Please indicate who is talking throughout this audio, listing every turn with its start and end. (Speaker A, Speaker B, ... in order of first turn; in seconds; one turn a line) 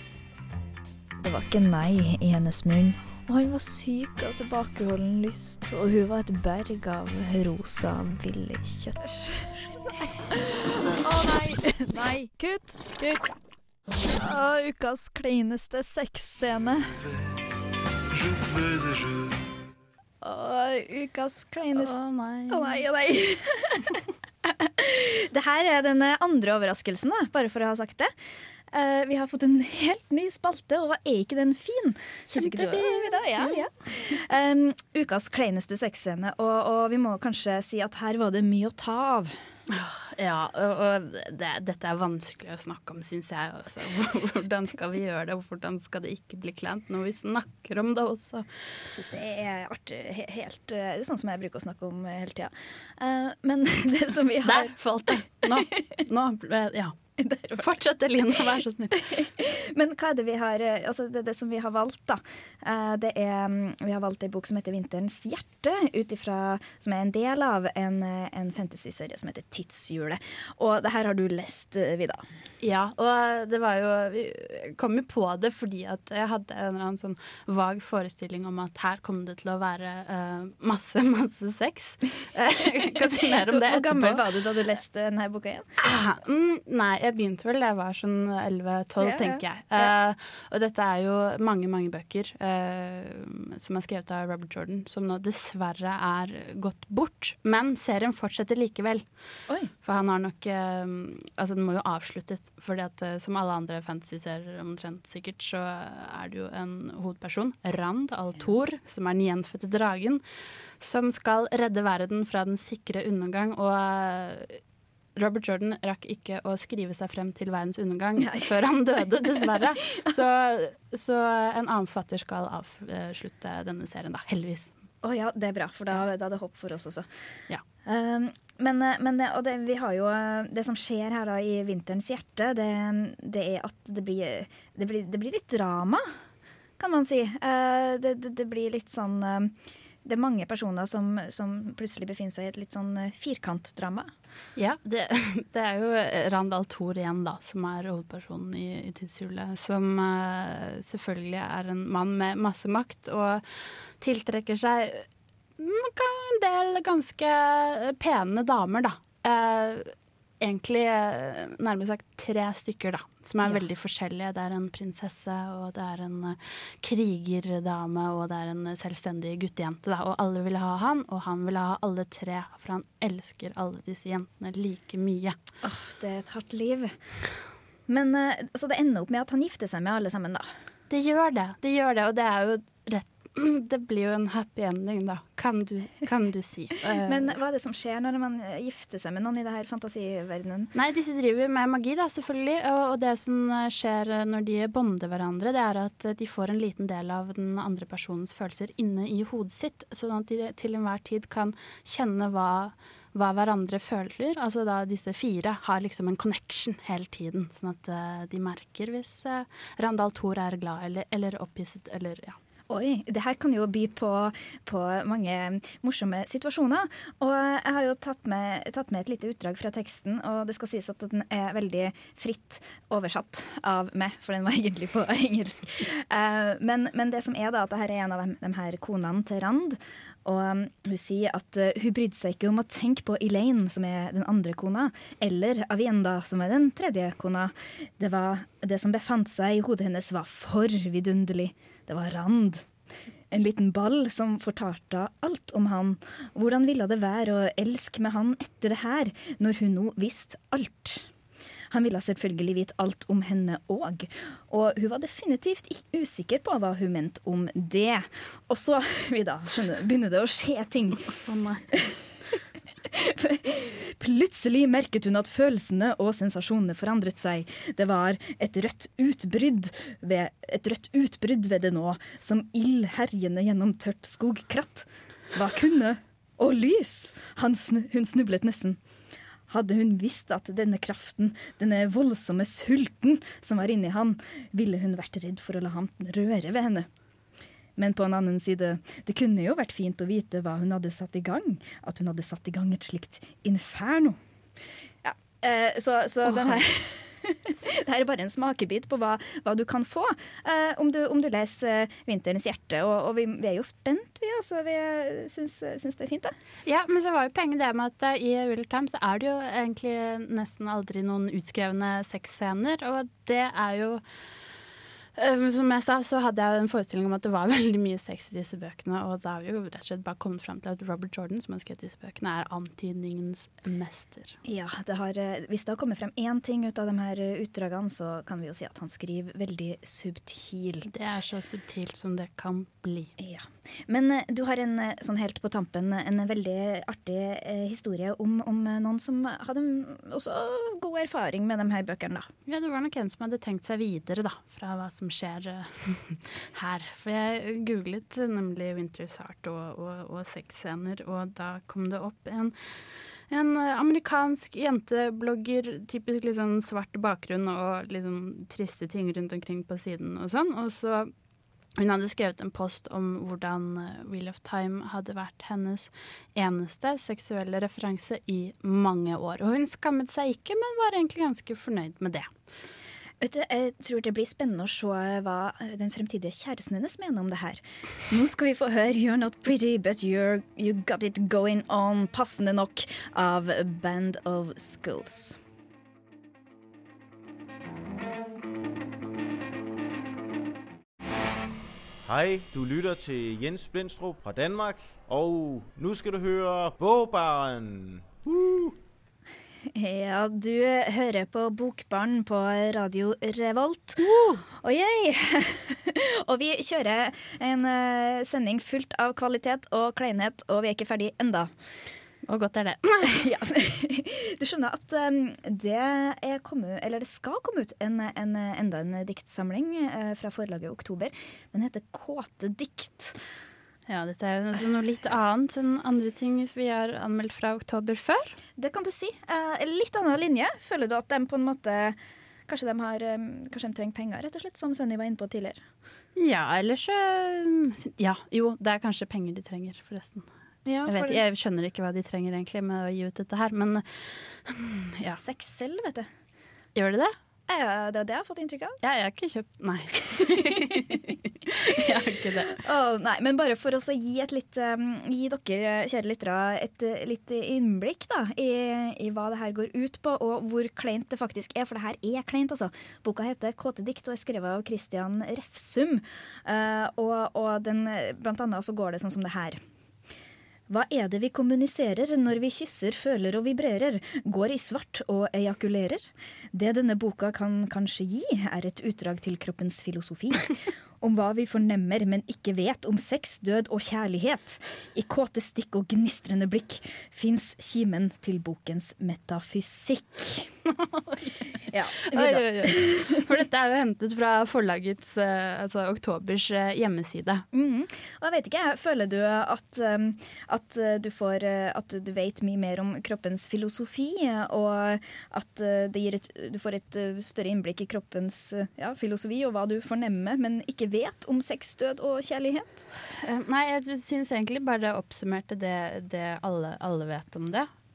Speaker A: 1.2-13.4
Speaker A: 14.1-17.1
Speaker A: 18.2-19.2
Speaker A: 20.2-21.9
Speaker B: 21.7-22.9
Speaker A: 22.5-28.1
Speaker A: 28.7-39.3
Speaker B: 32.3-33.6
Speaker B: 39.7-48.5
Speaker A: 48.9-54.8
Speaker B: 54.4-57.0
Speaker A: 57.2-57.7
Speaker B: 57.6-59.1
Speaker A: 59.0-72.2
Speaker B: 72.6-84.2
Speaker A: 83.4-85.7
Speaker B: 85.8-99.1
Speaker A: 89.0-89.9
Speaker B: 99.8-110.2
Speaker B: 110.8-114.6
Speaker B: 115.2-124.7
Speaker A: 118.2-118.5
Speaker A: 125.0-127.1
Speaker A: 127.8-136.0
Speaker A: 136.8-144.1
Speaker B: 144.6-153.4
Speaker B: 154.0-155.1
Speaker B: 155.6-175.4
Speaker A: 175.6-176.9
Speaker A: 177.9-180.5
Speaker B: 180.9-187.4
Speaker A: 187.1-190.7
Speaker B: 190.7-212.4
Speaker A: 212.7-242.7
Speaker A: 243.3-251.1
Speaker A: 251.7-261.1
Speaker B: 261.2-261.7
Speaker A: 262.9-278.8
Speaker A: 279.5-286.9
Speaker A: 287.8-294.2
Speaker A: 295.0-306.3
Speaker B: 296.3-296.6
Speaker B: 306.7-314.0
Speaker B: 315.2-324.4
Speaker A: 324.4-331.2
Speaker B: 330.9-333.1
Speaker A: 333.2-342.3
Speaker B: 342.5-352.6
Speaker B: 353.3-361.1
Speaker B: 361.8-372.3
Speaker A: 373.2-385.4
Speaker C: 392.0-398.7
Speaker A: 399.8-411.5
Speaker B: 404.0-404.4
Speaker B: 412.3-413.2
Speaker A: 413.1-423.2
Speaker B: 423.9-428.4
Speaker A: 428.6-432.0
Speaker A: 432.5-435.6
Speaker B: 436.1-440.3
Speaker A: 440.6-441.2
Speaker B: 440.9-445.2
Speaker A: 445.2-446.1
Speaker B: 446.8-447.1
Speaker A: 447.5-448.8
Speaker B: 448.8-452.6
Speaker A: 452.6-469.6
Speaker A: 470.7-490.5
Speaker B: 490.8-491.3
Speaker A: 491.7-493.1
Speaker B: 492.1-497.4
Speaker A: 497.5-512.9
Speaker B: 513.2-517.7